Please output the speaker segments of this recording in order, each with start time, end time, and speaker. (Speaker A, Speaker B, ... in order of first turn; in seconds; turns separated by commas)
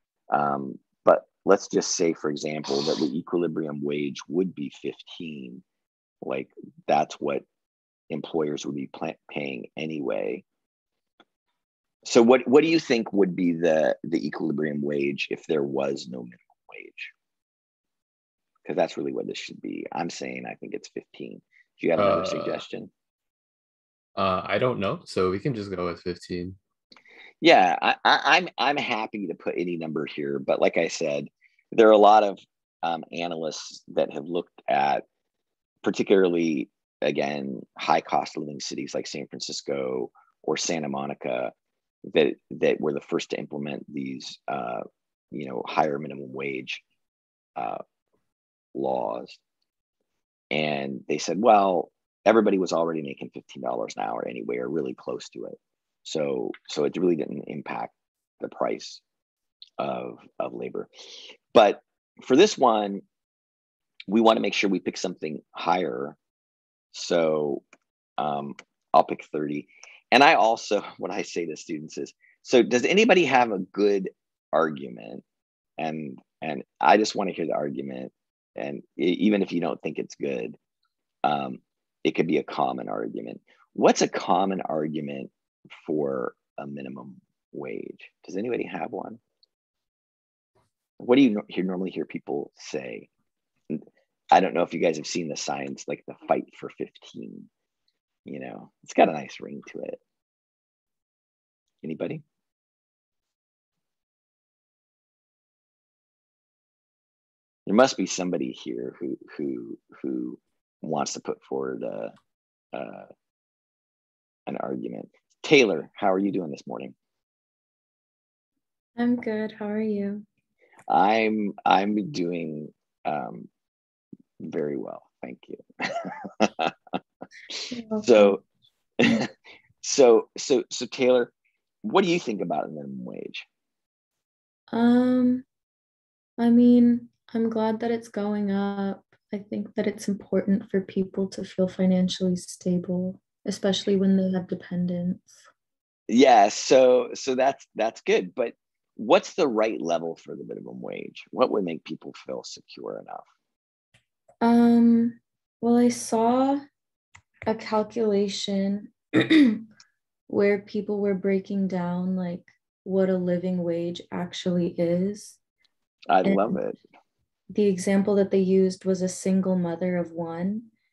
Speaker A: 0.3-5.6, Speaker A: 6.2-7.4, Speaker A: 8.1-10.4, Speaker A: 12.0-17.1, Speaker A: 18.6-22.9, Speaker B: 22.0-22.6, Speaker B: 24.1-26.6, Speaker A: 27.4-35.0, Speaker A: 35.8-41.5, Speaker A: 42.1-46.8, Speaker A: 47.6-47.8, Speaker A: 48.7-49.4, Speaker A: 50.5-59.0, Speaker A: 59.8-63.0, Speaker A: 64.1-66.2, Speaker A: 66.9-67.6, Speaker A: 68.2-75.2, Speaker A: 75.8-80.6, Speaker A: 81.2-89.2, Speaker A: 91.0-93.1, Speaker A: 93.7-97.5, Speaker A: 98.2-100.0, Speaker A: 101.8-102.2, Speaker A: 107.7-112.1, Speaker A: 112.7-113.1, Speaker A: 114.5-116.9, Speaker C: 119.0-120.2, Speaker A: 120.9-123.5, Speaker A: 124.4-126.7, Speaker A: 127.5-128.4, Speaker C: 127.7-128.4, Speaker A: 129.0-129.3, Speaker A: 129.8-131.3, Speaker A: 131.8-133.4, Speaker C: 134.7-135.4, Speaker C: 136.4-145.4, Speaker A: 146.1-153.2, Speaker C: 154.4-156.6, Speaker C: 157.4-159.7, Speaker C: 160.3-165.4, Speaker A: 166.1-166.8, Speaker C: 166.2-166.6, Speaker C: 167.5-170.7